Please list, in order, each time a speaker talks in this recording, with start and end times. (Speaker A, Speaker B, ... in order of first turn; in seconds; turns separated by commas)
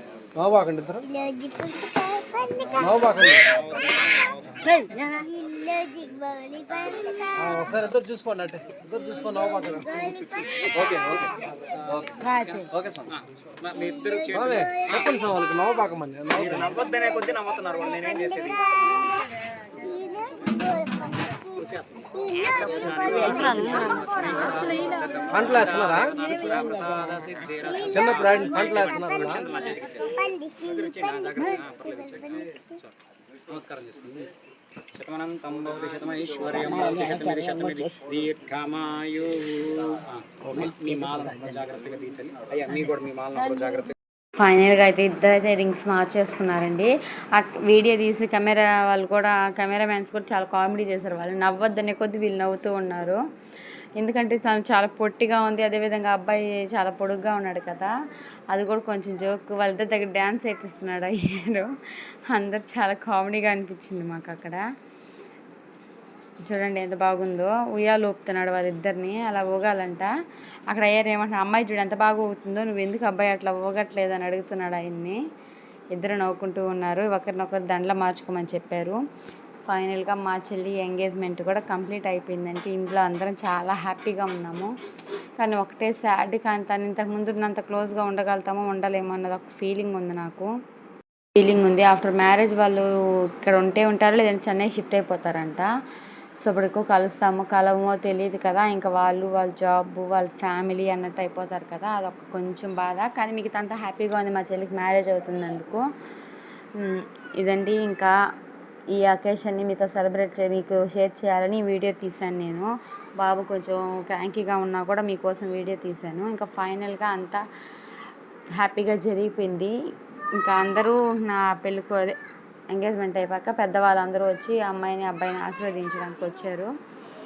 Speaker A: 0.3-3.5, Speaker B: 3.3-4.7, Speaker C: 4.7-5.2, Speaker A: 5.2-11.4, Speaker B: 11.9-15.2, Speaker C: 12.2-12.7, Speaker A: 12.7-13.1, Speaker A: 14.3-16.7, Speaker B: 16.3-18.7, Speaker A: 20.0-21.3, Speaker B: 21.5-32.8, Speaker C: 23.0-24.3, Speaker A: 25.3-26.2, Speaker A: 27.9-29.5, Speaker B: 33.5-34.3, Speaker B: 35.0-43.9, Speaker C: 36.5-37.9, Speaker C: 44.4-53.2, Speaker C: 54.0-57.9, Speaker C: 58.5-61.7, Speaker C: 62.3-64.6, Speaker C: 66.4-70.1, Speaker C: 70.7-75.2, Speaker C: 75.9-79.0, Speaker C: 79.6-84.7, Speaker C: 85.4-90.5, Speaker C: 91.4-92.9, Speaker C: 93.4-95.7, Speaker C: 96.4-105.8, Speaker C: 106.8-108.1, Speaker C: 108.9-117.4, Speaker C: 118.5-119.7, Speaker C: 120.3-122.2, Speaker C: 122.7-126.7